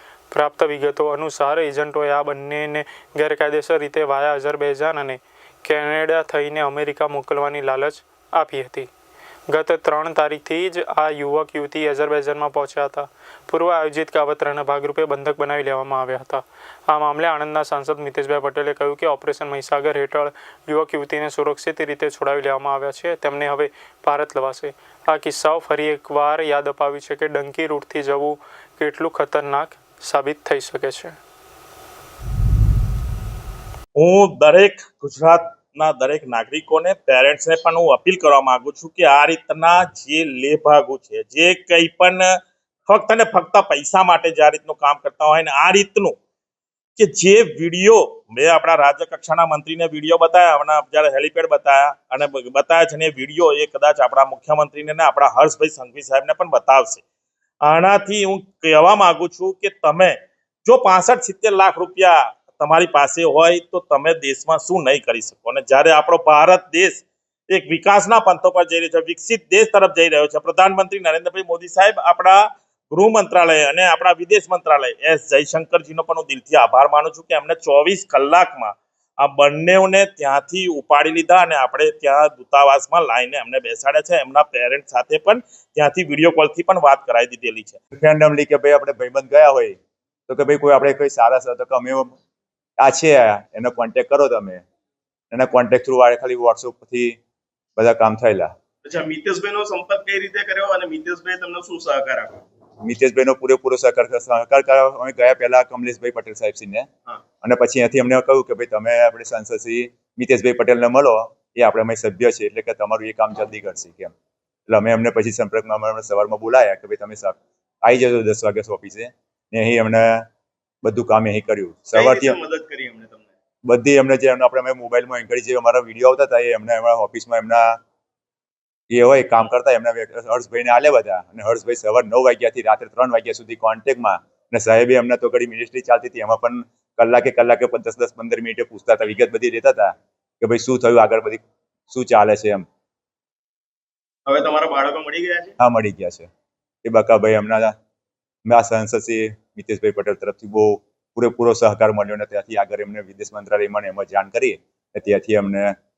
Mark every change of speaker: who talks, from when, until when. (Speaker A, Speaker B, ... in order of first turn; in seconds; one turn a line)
Speaker A: 0.3-8.9
Speaker A: 9.5-31.2
Speaker B: 34.0-42.3
Speaker B: 42.9-46.2
Speaker B: 47.0-57.0
Speaker B: 57.6-87.8
Speaker C: 87.9-89.8
Speaker C: 90.3-92.1
Speaker C: 92.8-94.6
Speaker C: 95.3-97.2
Speaker C: 97.8-98.5
Speaker D: 98.8-102.4
Speaker C: 102.8-106.9
Speaker C: 107.4-114.1
Speaker C: 114.7-120.3
Speaker C: 120.8-122.4
Speaker D: 121.9-123.3
Speaker C: 123.7-127.8
Speaker C: 128.9-142.7
Speaker D: 144.3-145.6
Speaker C: 145.6-146.3
Speaker C: 146.8-147.8
Speaker C: 148.4-155.8